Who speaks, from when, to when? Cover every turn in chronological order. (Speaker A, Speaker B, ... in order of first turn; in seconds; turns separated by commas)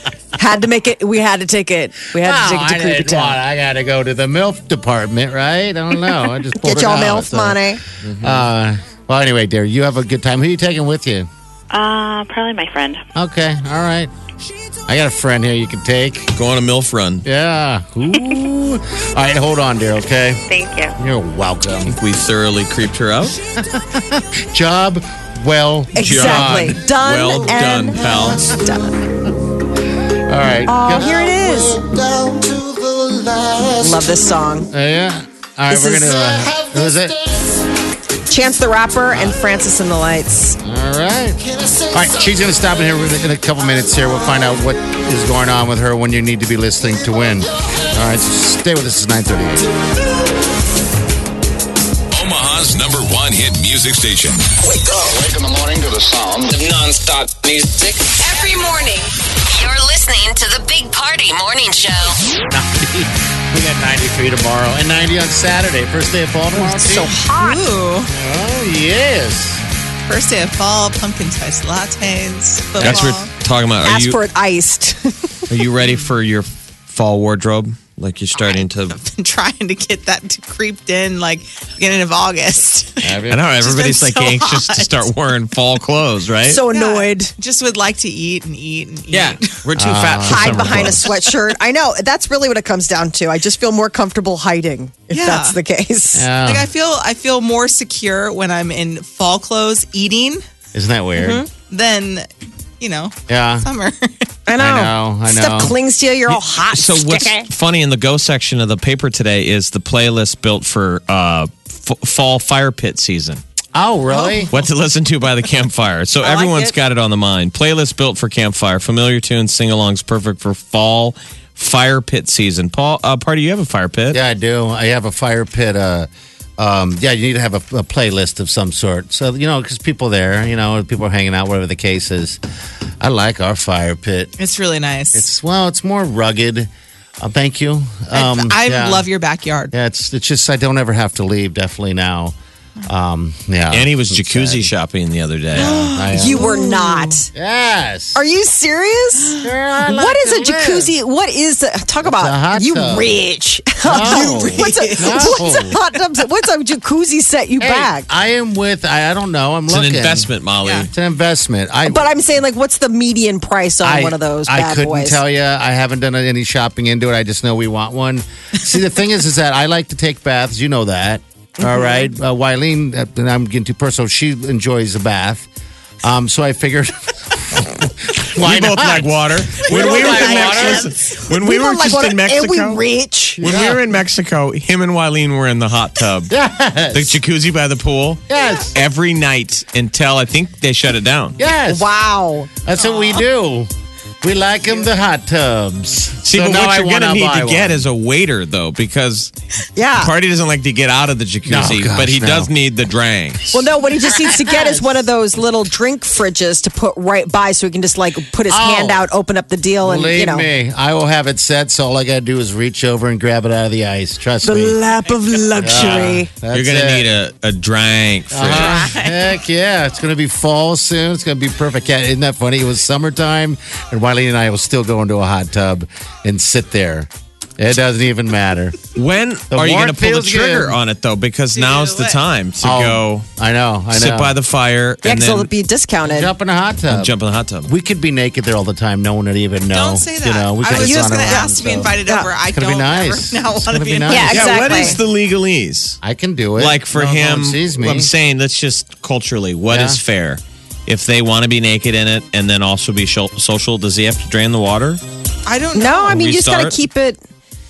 Speaker A: 0.4-3.4, Speaker B: 2.2-7.6, Speaker A: 6.5-7.8, Speaker C: 8.1-8.4, Speaker B: 8.2-11.3, Speaker D: 11.7-13.0, Speaker B: 13.2-14.1, Speaker B: 14.9-16.3, Speaker C: 16.3-17.2, Speaker B: 17.2-20.4, Speaker D: 18.1-18.4, Speaker D: 20.5-20.9, Speaker B: 21.0-21.9, Speaker C: 21.9-23.4, Speaker B: 23.6-26.8, Speaker A: 25.9-29.0, Speaker C: 26.0-28.5, Speaker B: 28.0-28.7, Speaker B: 30.3-37.2, Speaker A: 30.7-31.8, Speaker A: 33.8-34.7, Speaker A: 35.7-36.5, Speaker A: 38.3-40.6, Speaker B: 39.1-39.4, Speaker B: 40.6-41.4, Speaker B: 41.9-49.7, Speaker E: 52.1-54.4, Speaker F: 54.6-58.0, Speaker A: 58.2-59.0, Speaker G: 59.5-62.2, Speaker B: 62.5-67.1, Speaker A: 66.5-67.7, Speaker H: 67.2-68.1, Speaker B: 68.1-69.6, Speaker H: 70.1-73.3, Speaker C: 72.8-74.2, Speaker A: 73.8-75.5, Speaker C: 75.5-79.0, Speaker H: 78.4-84.9, Speaker B: 83.0-83.5, Speaker C: 83.3-86.6, Speaker A: 86.5-87.4, Speaker H: 86.7-89.4, Speaker C: 89.1-91.1, Speaker B: 89.8-91.0, Speaker A: 90.3-96.3, Speaker H: 95.1-95.6, Speaker B: 96.1-96.7, Speaker H: 96.4-100.5, Speaker B: 100.7-101.4, Speaker A: 101.2-101.5, Speaker H: 101.6-102.3, Speaker H: 102.8-104.3, Speaker B: 103.3-103.7, Speaker A: 104.5-107.5, Speaker B: 104.6-105.8, Speaker C: 106.3-113.4, Speaker B: 113.8-114.5, Speaker C: 114.5-124.2, Speaker A: 116.2-116.8, Speaker B: 124.1-132.4, Speaker B: 133.0-134.3, Speaker H: 134.4-135.3, Speaker B: 135.1-136.7, Speaker B: 137.2-139.1, Speaker H: 138.1-139.7, Speaker B: 139.7-144.7, Speaker C: 143.7-145.9, Speaker B: 145.5-146.5, Speaker H: 145.8-147.2, Speaker A: 146.1-147.3, Speaker B: 147.3-148.2, Speaker A: 148.2-158.1, Speaker B: 149.4-150.9, Speaker B: 152.0-153.2, Speaker B: 153.8-155.8, Speaker H: 154.0-155.4, Speaker B: 157.6-160.3, Speaker C: 159.7-160.9, Speaker H: 160.7-160.9, Speaker B: 160.9-162.1, Speaker A: 161.9-165.2, Speaker B: 163.8-175.5, Speaker A: 171.6-172.1, Speaker B: 176.0-180.9, Speaker C: 178.3-182.8, Speaker A: 179.7-183.4, Speaker B: 183.4-183.8, Speaker C: 183.4-186.3, Speaker B: 186.3-187.2, Speaker C: 186.9-191.4, Speaker B: 188.3-188.8, Speaker B: 191.4-191.9, Speaker A: 191.7-192.5, Speaker B: 192.6-193.7, Speaker H: 192.8-193.1, Speaker B: 194.2-197.8, Speaker C: 196.2-199.3, Speaker A: 199.8-200.1, Speaker C: 199.9-203.6, Speaker B: 201.5-202.5, Speaker A: 203.5-210.5, Speaker B: 204.3-204.8, Speaker B: 208.5-209.1, Speaker B: 209.8-214.8, Speaker A: 214.4-216.3, Speaker B: 215.6-217.1, Speaker C: 216.5-218.9, Speaker B: 218.3-228.8, Speaker H: 218.6-219.3, Speaker C: 228.9-233.3, Speaker B: 229.5-230.8, Speaker H: 231.5-232.2, Speaker B: 232.6-234.4, Speaker C: 233.9-235.5, Speaker A: 235.0-236.3, Speaker B: 236.0-241.9, Speaker C: 236.9-237.7, Speaker H: 239.7-245.0, Speaker A: 240.7-241.4, Speaker A: 242.0-242.3, Speaker B: 242.5-244.7, Speaker A: 244.1-245.0, Speaker C: 244.2-246.0, Speaker B: 246.0-248.1, Speaker C: 246.6-255.0, Speaker B: 249.7-250.0, Speaker H: 255.5-256.2, Speaker A: 255.7-257.2, Speaker C: 256.1-256.8